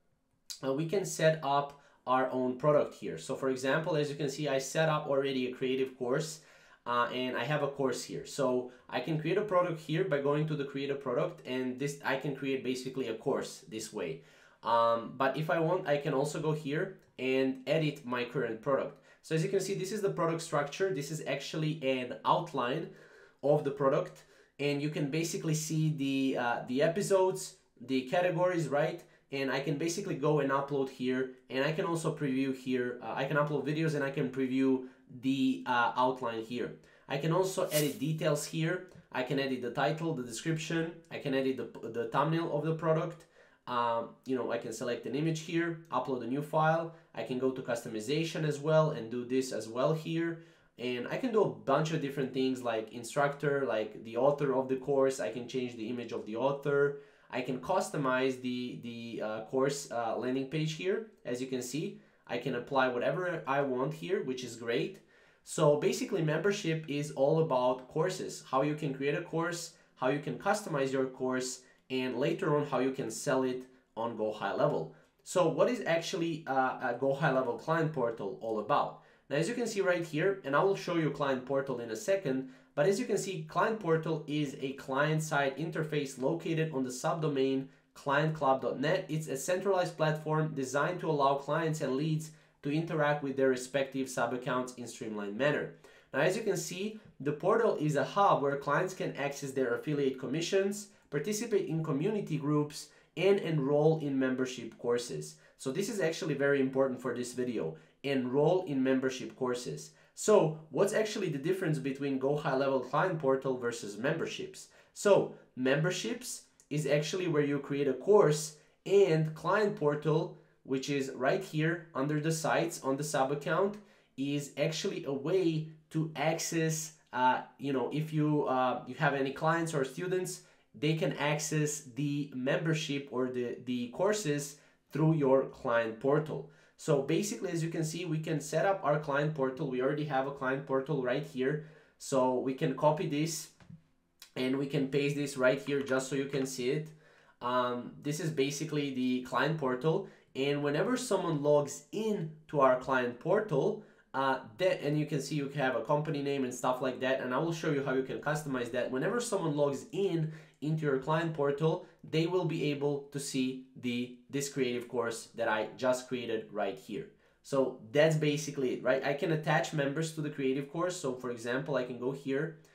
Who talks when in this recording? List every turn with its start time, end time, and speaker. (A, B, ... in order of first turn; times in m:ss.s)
0:00.6-0:22.9 A
0:23.4-2:23.5 A
2:24.4-2:52.6 A